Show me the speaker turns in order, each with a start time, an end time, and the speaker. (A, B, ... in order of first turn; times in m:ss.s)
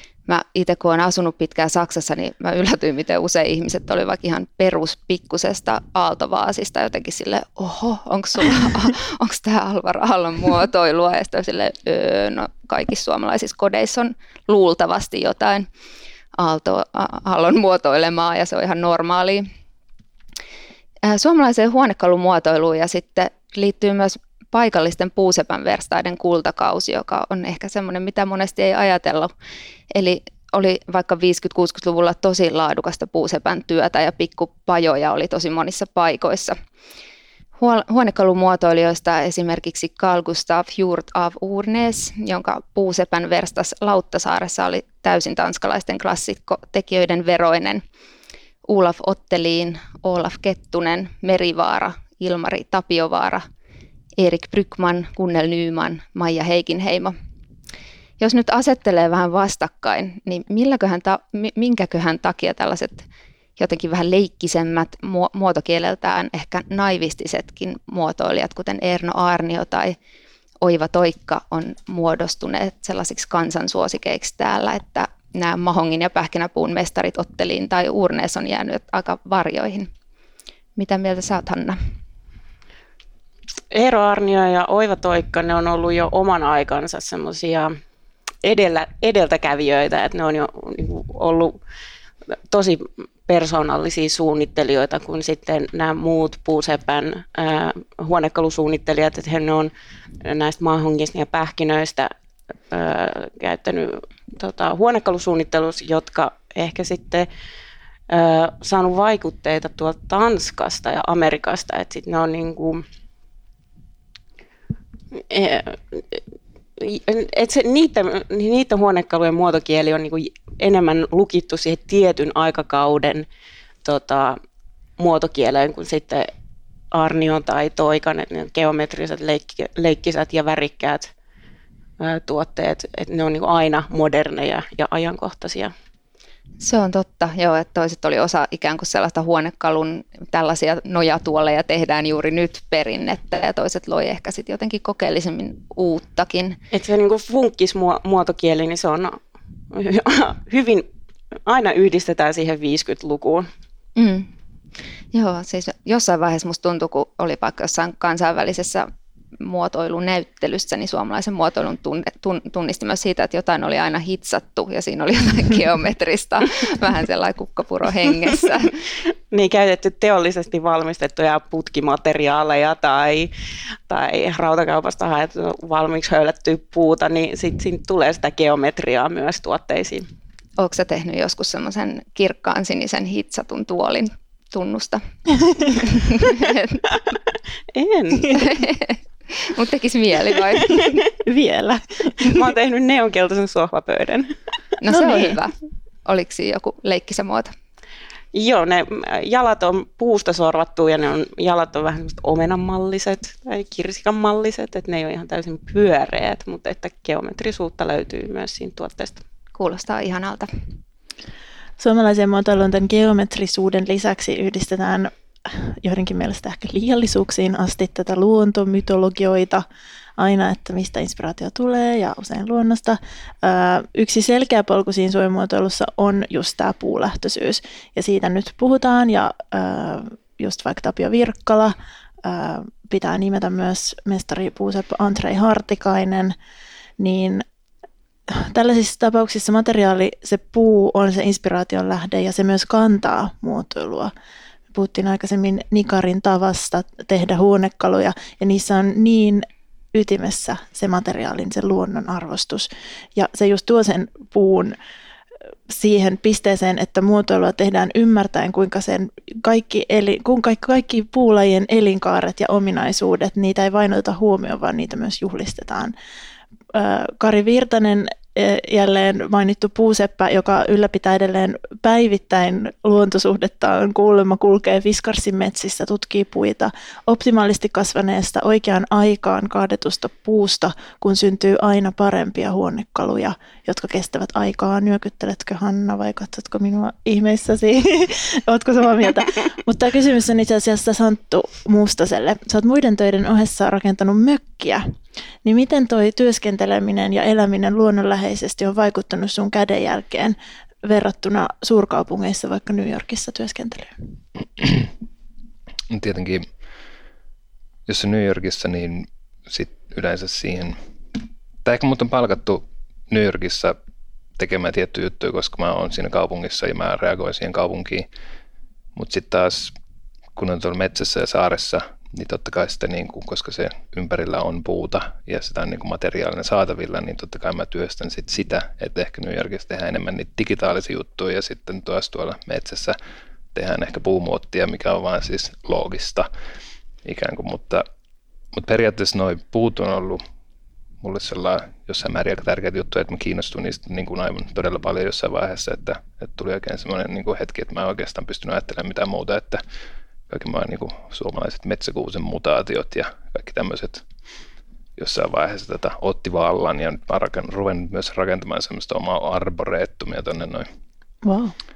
0:00.3-0:15.7 A
0:16.4-0:19.5 A
0:21.0-0:29.3 A
0:29.9-0:36.6 A
0:37.6-0:47.8 A
0:48.7-0:53.4 A
0:54.2-0:57.2 A
0:58.2-1:10.0 A
1:10.6-1:19.9 A
1:20.8-1:21.8 A
1:23.7-1:27.8 B
1:28.4-1:31.6 B
1:32.5-1:39.7 B
1:40.2-1:42.1 B
1:42.7-1:47.3 B
1:48.1-1:52.8 B
1:55.1-1:56.2 B
1:56.8-2:03.3 B
2:03.8-2:04.4 B
2:05.0-2:06.3 B
2:06.9-2:11.1 B
2:12.0-2:15.7 B
2:16.6-2:26.6 A
2:26.7-2:30.9 B
2:31.5-2:33.5 B
2:34.0-2:34.3 A
2:35.1-2:48.8 A
2:49.3-2:53.3 B
2:53.9-3:00.1 B
3:00.6-3:05.0 A
3:05.7-3:06.8 A
3:07.7-3:08.5 B
3:08.3-3:11.0 A
3:11.2-3:12.4 C
3:12.2-3:14.3 B
3:14.8-3:17.5 A
3:14.9-3:15.4 C
3:18.3-3:29.2 B
3:29.6-3:30.5 A
3:31.8-3:39.6 C
3:40.2-3:56.4 C
3:57.0-3:57.4 C
3:58.3-4:04.1 C
4:04.7-4:14.8 C
4:15.7-4:25.9 C
4:26.7-4:54.9 C
4:55.4-5:04.0 C
5:04.6-5:04.9 D
5:05.9-5:06.5 D
5:07.9-5:10.8 D
5:11.6-5:13.8 D
5:14.4-5:18.1 D
5:19.0-5:19.7 D
5:20.4-5:33.0 D
5:33.6-5:36.3 D
5:37.0-5:37.8 D
5:38.5-5:40.2 D
5:41.0-5:49.6 D
5:50.3-5:54.0 D
5:55.0-6:00.7 D
6:01.2-6:01.5 C